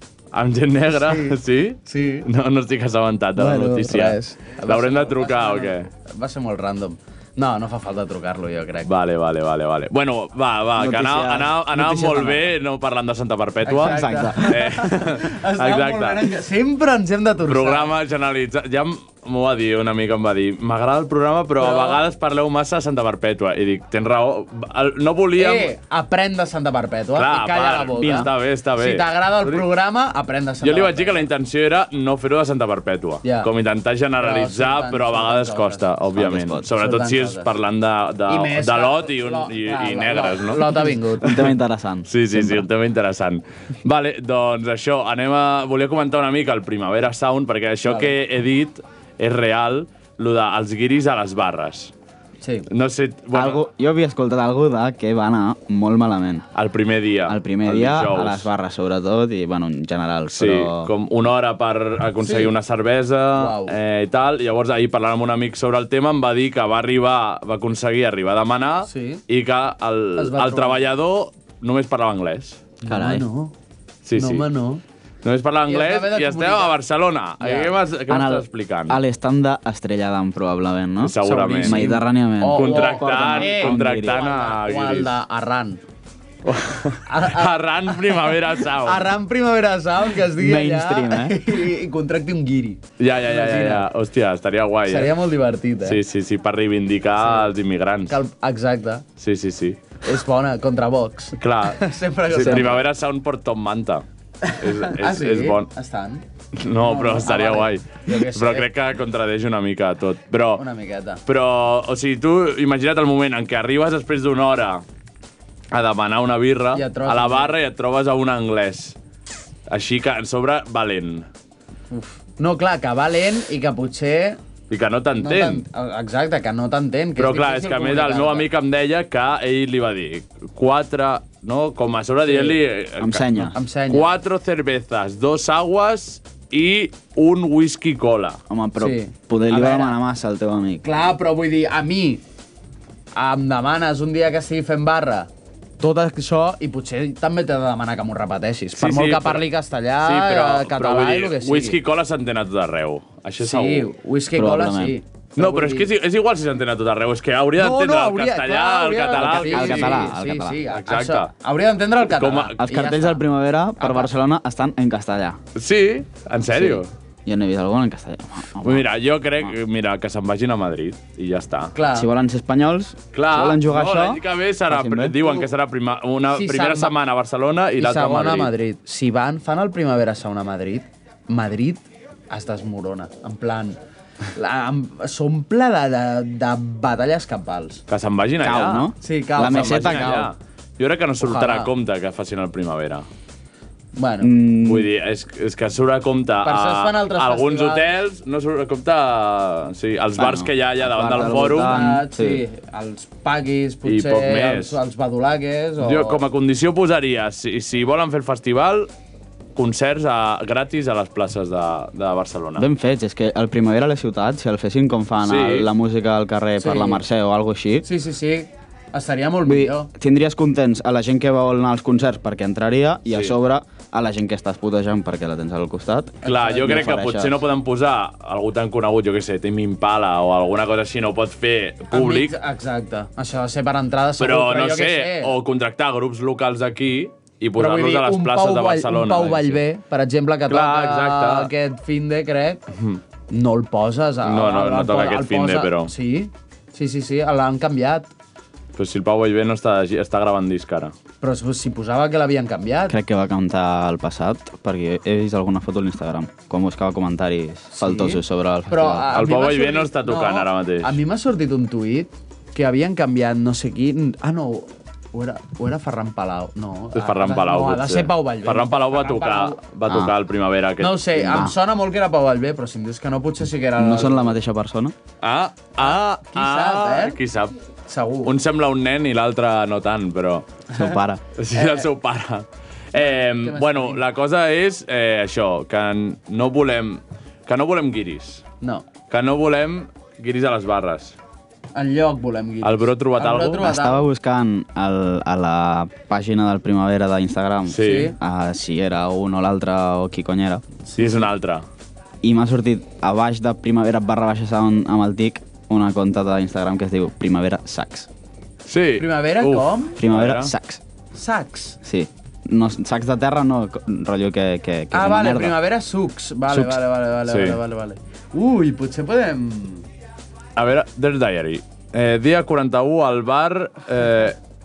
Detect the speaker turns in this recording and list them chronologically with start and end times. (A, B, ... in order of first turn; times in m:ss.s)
0:00.3-0:05.9 A
0:00.9-0:02.3 B
0:03.4-0:08.9 B
0:08.8-0:16.3 A
0:10.8-0:12.5 C
0:13.6-0:17.9 B
0:13.8-0:14.6 C
0:17.5-0:25.7 A
0:21.6-0:22.0 B
0:25.4-0:31.3 B
0:27.2-0:29.6 A
0:30.6-0:40.9 A
0:33.2-0:33.5 B
0:34.2-0:35.9 B
0:36.1-0:36.6 C
0:36.7-0:37.5 B
0:38.3-0:41.5 B
0:41.2-0:42.6 C
0:42.1-0:51.9 A
0:47.8-0:48.2 B
0:52.4-0:52.7 B
0:52.7-0:53.6 A
0:53.3-0:56.4 C
0:56.5-0:58.5 A
0:57.3-1:00.9 C
1:00.3-1:12.6 A
1:02.2-1:02.5 B
1:03.4-1:03.7 B
1:08.9-1:09.2 B
1:10.2-1:10.8 B
1:12.8-1:13.5 B
1:12.8-1:13.2 C
1:14.0-1:14.5 A
1:14.2-1:14.8 B
1:15.2-1:19.0 A
1:15.7-1:16.7 B
1:17.4-1:17.7 B
1:18.1-1:24.2 C
1:21.0-1:21.8 A
1:21.2-1:25.8 B
1:22.5-1:25.1 A
1:26.4-1:29.1 A
1:27.0-1:33.8 B
1:30.4-1:31.4 C
1:33.0-1:35.1 A
1:34.9-1:36.0 B
1:35.8-1:38.2 A
1:37.2-1:37.5 B
1:38.1-1:39.0 B
1:39.2-1:40.0 A
1:40.0-1:42.8 B
1:41.4-1:44.0 A
1:42.4-1:42.7 C
1:44.4-1:48.7 B
1:44.6-1:45.7 A
1:46.6-1:50.6 A
1:50.6-1:51.2 B
1:51.2-1:54.8 A
1:55.7-1:59.0 A
1:56.7-1:57.6 B
1:59.7-2:01.3 A
2:01.9-2:04.4 B
2:04.7-2:05.6 A
2:05.2-2:08.5 B
2:07.2-2:18.4 A
2:12.2-2:12.6 B
2:13.0-2:13.6 C
2:13.5-2:14.1 B
2:18.5-2:20.8 C
2:18.8-2:20.0 B
2:20.8-2:22.2 B
2:23.1-2:25.3 B
2:25.8-2:31.8 B
2:28.7-2:29.4 A
2:30.0-2:33.9 A
2:33.4-2:35.9 B
2:34.3-2:35.0 C
2:35.4-2:40.1 A
2:37.6-2:43.2 B
2:39.1-2:40.6 C
2:40.7-2:41.3 A
2:42.0-2:42.6 A
2:42.6-2:45.4 C
2:43.8-2:44.1 B
2:45.5-2:46.9 A
2:46.5-2:48.9 C
2:48.6-2:51.7 A
2:51.7-2:52.1 B
2:51.9-2:55.2 C
2:53.1-2:58.5 A
2:56.3-2:56.9 B
2:57.8-3:03.8 B
3:04.3-3:07.8 B
3:07.9-3:13.0 A
3:08.4-3:10.3 C
3:09.0-3:10.3 B
3:11.2-3:11.7 B
3:14.0-3:14.3 B
3:14.2-3:14.9 C
3:14.6-3:22.0 A
3:16.4-3:17.9 B
3:20.2-3:22.4 C
3:21.6-3:26.2 B
3:23.8-3:24.8 A
3:25.8-3:28.9 A
3:29.6-3:32.6 A
3:32.6-3:37.9 C
3:35.2-3:35.7 A
3:36.6-3:37.0 B
3:37.8-3:39.9 B
3:39.4-3:47.4 C
3:46.2-3:46.8 B
3:46.2-3:52.4 A
3:51.9-3:55.3 B
3:54.2-3:59.6 A
3:57.6-4:02.6 B
4:00.5-4:01.5 A
4:02.7-4:03.0 A
4:03.3-4:08.1 B
4:04.2-4:05.9 A
4:08.8-4:10.9 A
4:11.2-4:13.0 B
4:12.9-4:19.1 C
4:17.7-4:29.6 B
4:19.1-4:21.0 A
4:26.9-4:31.1 A
4:29.9-4:30.1 C
4:30.8-4:34.4 B
4:31.2-4:31.6 C
4:33.8-4:34.9 C
4:35.2-4:37.6 A
4:35.8-4:37.2 B
4:37.9-4:38.4 B
4:38.2-4:40.6 A
4:40.7-4:41.2 C
4:41.4-4:48.4 A
4:41.5-4:41.9 B
4:42.9-4:44.0 B
4:49.1-4:51.2 A
4:51.7-4:54.0 B
4:52.6-4:53.7 A
4:53.6-5:00.6 C
4:57.7-4:58.1 A
4:57.8-4:58.1 B
5:00.8-5:01.3 B
5:01.0-5:01.6 A
5:02.2-5:08.1 C
5:08.6-5:10.5 A
5:09.0-5:10.0 B
5:10.0-5:10.8 C
5:11.1-5:11.8 B
5:11.8-5:15.6 C
5:14.9-5:19.9 B
5:16.5-5:16.8 C
5:17.3-5:17.6 A
5:20.6-5:24.4 A